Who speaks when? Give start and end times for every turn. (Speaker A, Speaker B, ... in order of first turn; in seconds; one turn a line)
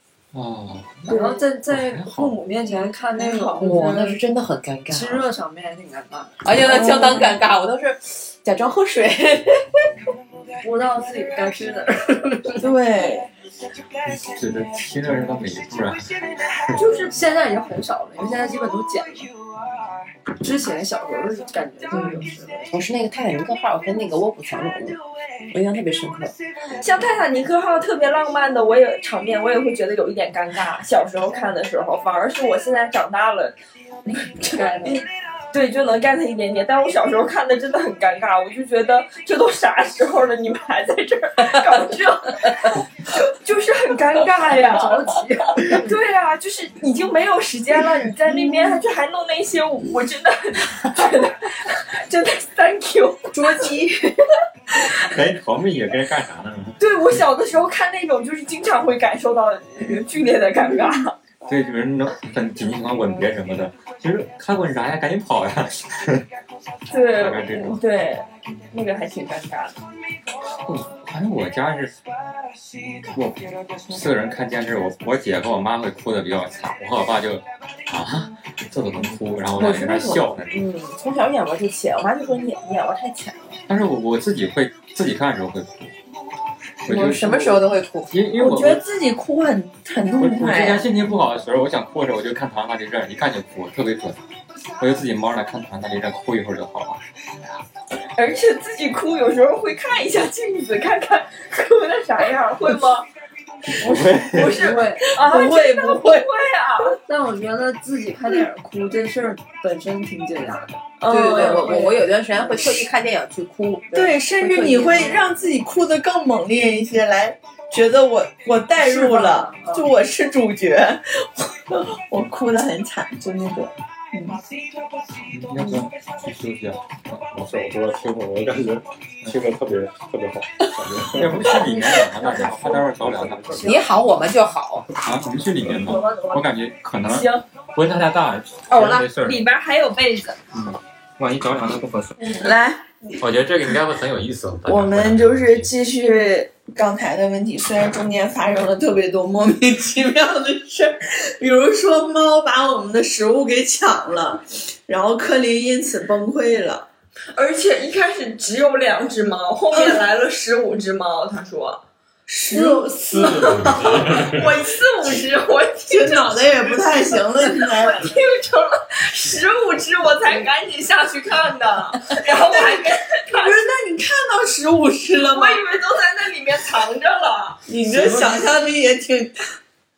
Speaker A: 0.3-2.4
Speaker B: 1.1-1.4
Speaker C: 1.1-4.1
Speaker B: 3.2-4.1
Speaker D: 3.6-5.3
Speaker C: 4.9-6.4
Speaker D: 6.4-9.6
Speaker E: 6.6-7.4
Speaker C: 10.6-12.7
Speaker E: 12.6-13.3
Speaker A: 14.0-16.9
Speaker B: 16.8-17.1
Speaker C: 16.8-19.3
Speaker C: 20.4-22.7
Speaker B: 21.9-22.2
Speaker D: 22.7-26.4
Speaker B: 26.7-33.6
Speaker B: 34.1-45.1
Speaker C: 34.3-35.0
Speaker C: 44.4-46.0
Speaker B: 45.7-53.8
Speaker E: 48.3-48.8
Speaker C: 53.3-54.1
Speaker A: 55.0-56.8
Speaker B: 56.8-61.2
Speaker A: 61.5-66.3
Speaker B: 66.9-69.8
Speaker A: 67.1-67.8
Speaker A: 70.5-72.0
Speaker A: 72.8-80.7
Speaker D: 79.5-83.6
Speaker A: 83.7-85.9
Speaker A: 86.8-88.8
Speaker D: 86.8-88.2
Speaker E: 88.4-90.9
Speaker A: 90.2-94.2
Speaker A: 94.8-97.0
Speaker B: 98.2-103.1
Speaker A: 103.7-104.8
Speaker B: 103.8-107.0
Speaker C: 104.4-105.1
Speaker E: 105.1-106.2
Speaker C: 106.9-112.9
Speaker B: 111.0-112.0
Speaker D: 111.1-115.0
Speaker E: 113.9-124.4
Speaker C: 114.4-115.2
Speaker C: 118.8-119.9
Speaker A: 125.2-127.4
Speaker F: 127.3-131.7
Speaker A: 131.1-133.8
Speaker B: 132.0-132.6
Speaker F: 132.8-133.7
Speaker D: 133.6-134.9
Speaker A: 135.0-139.5
Speaker B: 135.7-136.4
Speaker B: 137.1-137.4
Speaker B: 138.7-140.4
Speaker A: 140.5-142.4
Speaker E: 142.3-143.1
Speaker A: 143.2-145.7
Speaker E: 144.7-156.9
Speaker B: 157.3-161.8
Speaker E: 159.7-160.0
Speaker E: 162.3-164.3
Speaker B: 162.5-173.7
Speaker A: 163.1-164.5
Speaker E: 165.9-168.2
Speaker E: 172.5-175.6
Speaker B: 175.2-177.6
Speaker E: 177.7-179.3
Speaker A: 177.8-178.5